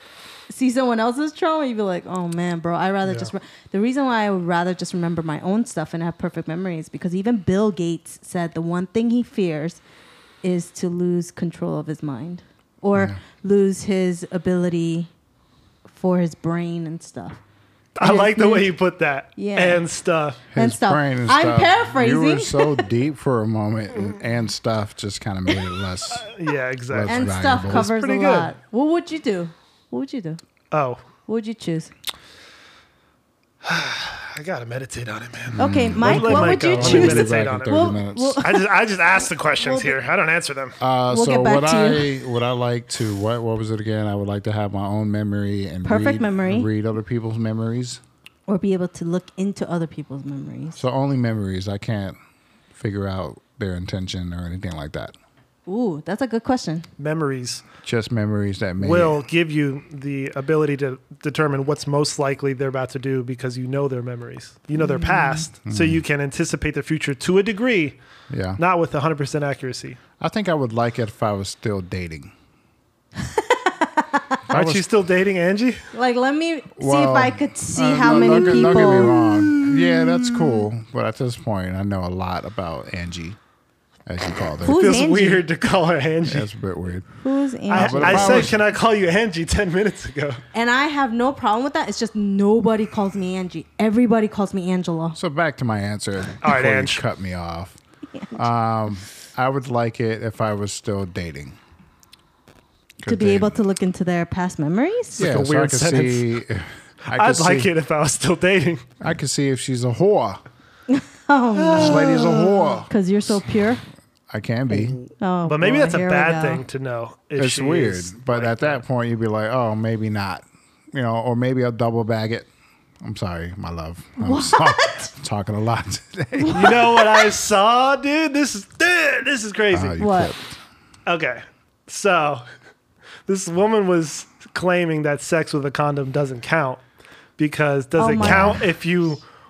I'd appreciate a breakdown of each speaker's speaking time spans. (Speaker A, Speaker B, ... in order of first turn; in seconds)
Speaker A: 0.5-9.8, 10.4-15.1, 15.9-17.4, 18.0-18.7, 19.4-19.8, 20.6-22.9, 27.1-30.4, 31.3-31.9, 35.6-38.7, 39.6-40.0, 41.1-42.1, 45.9-46.7, 48.5-50.8, 55.7-56.9, 64.8-65.5, 73.2-74.4, 75.9-80.7, 84.6-85.4, 87.2-88.5, 90.5-95.2, 103.0-105.3, 110.9-113.8, 115.2-116.6, 124.2-125.1, 126.4-126.9, 130.0-130.3, 138.0-138.7
Speaker B: 3.0-3.3, 18.0-20.4, 26.1-28.6, 30.7-31.0, 33.6-37.8, 38.4-40.8, 57.0-57.7, 58.8-68.0, 68.6-70.0, 74.5-75.9, 78.0-79.2, 84.6-86.5, 87.7-90.4, 96.4-97.0, 105.2-106.3, 107.1-108.9, 111.5-112.5, 114.7-118.8, 126.5-130.0, 131.1-132.4, 133.3-136.8, 137.4-139.2
Speaker C: 12.9-13.2, 20.5-26.2, 26.9-27.9, 35.5-38.4, 40.8-48.0, 50.8-52.2, 52.8-55.1, 57.8-59.2, 65.7-66.0, 68.3-68.6, 70.2-72.3, 74.5-74.8, 76.8-83.4, 84.1-85.0, 86.3-87.1, 87.7-88.6, 95.2-97.8, 98.3-101.6, 103.0-103.6, 105.2-107.7, 109.0-110.4, 111.7-112.9, 114.3-115.0, 117.4-122.5, 123.0-126.9, 129.7-130.6, 138.2-138.6